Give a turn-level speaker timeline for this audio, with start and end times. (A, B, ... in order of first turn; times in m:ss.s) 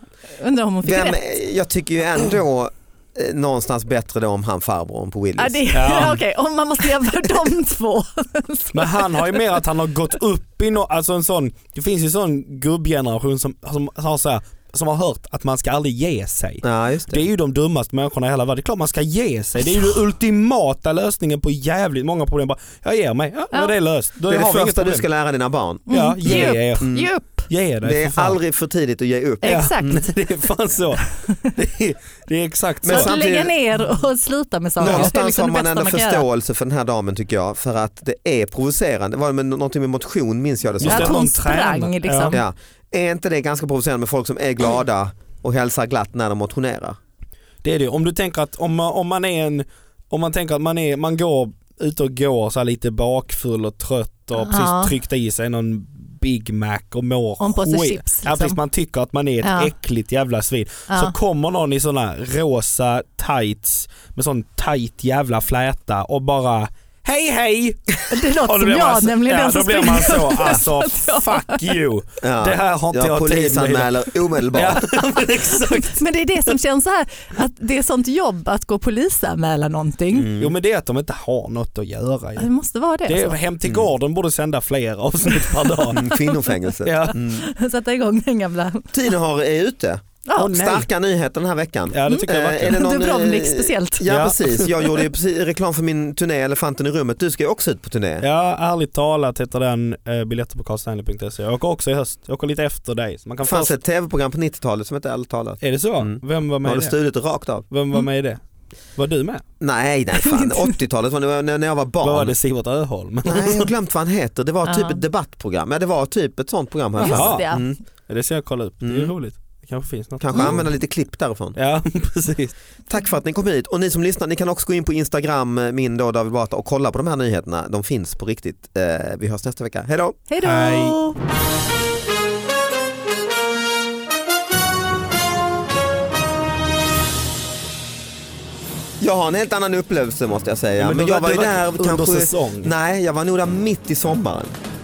0:00.4-0:01.2 A
0:00.8-0:06.1 B
0:05.4-0:09.4 A
0:05.7-0:06.2 C
0:08.7-0:25.1 C
0:16.6-0:17.2 B
0:24.3-0:27.1 B
0:25.9-0:27.5 A
0:25.9-0:28.4 C
0:27.8-0:30.0 B
0:29.4-0:30.0 A
0:29.4-0:33.1 C
0:32.8-0:33.5 B
0:32.9-0:36.2 A
0:34.8-0:41.2 B
0:34.8-0:35.1 C
0:40.8-0:42.4 C
0:40.8-0:42.4 A
0:42.3-0:47.0 B
0:47.6-1:14.0 C
0:54.3-0:54.9 A
0:57.4-0:58.6 A
0:59.4-0:59.7 A
1:00.9-1:01.2 A
1:08.1-1:11.6 A
1:12.2-1:14.8 B
1:14.5-1:16.0 C
1:15.6-1:20.3 A
1:20.1-1:20.5 B
1:20.3-1:22.5 C
1:22.4-1:23.4 A
1:23.1-1:26.0 C
1:25.6-1:26.2 A
1:25.9-1:27.5 B
1:26.8-1:27.2 C
1:27.1-1:28.9 A
1:28.9-1:38.3 B
1:30.3-1:30.5 A
1:30.4-1:30.9 C
1:31.9-1:32.8 C
1:32.1-1:34.1 A
1:34.1-1:34.7 C
1:38.2-1:43.8 C
1:43.4-1:47.6 B
1:45.6-1:47.0 C
1:47.7-1:48.4 C
1:49.0-1:49.4 C
1:49.6-1:52.4 B
1:50.2-1:50.7 A
1:52.0-1:53.7 C
1:53.2-1:57.8 B
1:54.6-1:55.0 A
1:57.0-1:57.8 A
1:57.0-1:57.5 C
1:58.1-2:00.7 C
1:58.8-1:59.1 B
2:00.2-2:01.6 B
2:01.6-2:02.5 C
2:02.9-2:10.2 B
2:10.3-2:11.2 A
2:10.4-2:11.0 C
2:19.0-2:24.6 B
2:20.8-2:22.7 C